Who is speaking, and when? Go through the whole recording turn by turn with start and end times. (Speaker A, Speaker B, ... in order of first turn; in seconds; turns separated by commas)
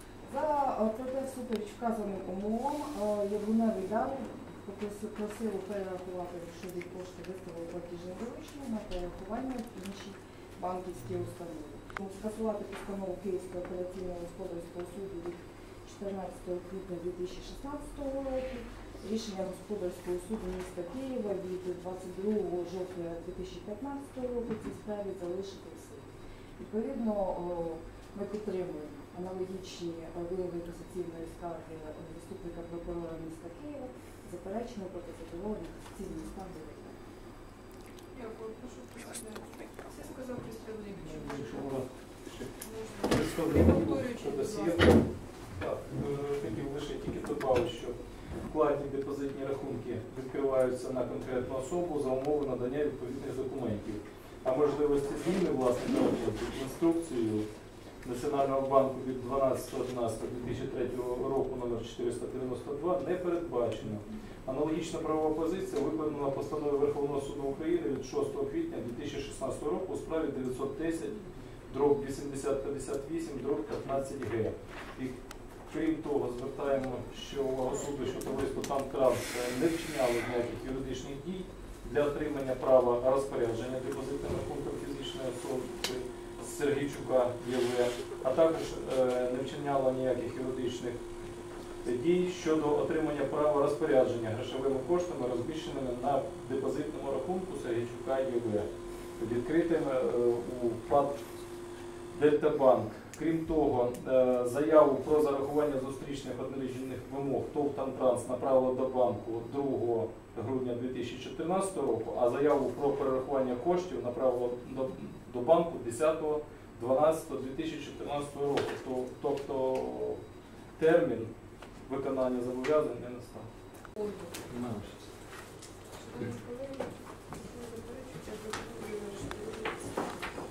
Speaker A: 0.2-37.0, Speaker B: 38.1-41.8, Speaker C: 41.0-48.0, Speaker B: 42.6-45.0, Speaker C: 48.5-57.5, Speaker C: 58.0-75.2, Speaker C: 75.7-91.0, Speaker C: 91.8-101.2, Speaker C: 102.1-120.2, Speaker C: 120.8-121.3, Speaker C: 121.8-123.5, Speaker B: 124.0-124.3, Speaker C: 124.5-125.0, Speaker B: 125.9-130.2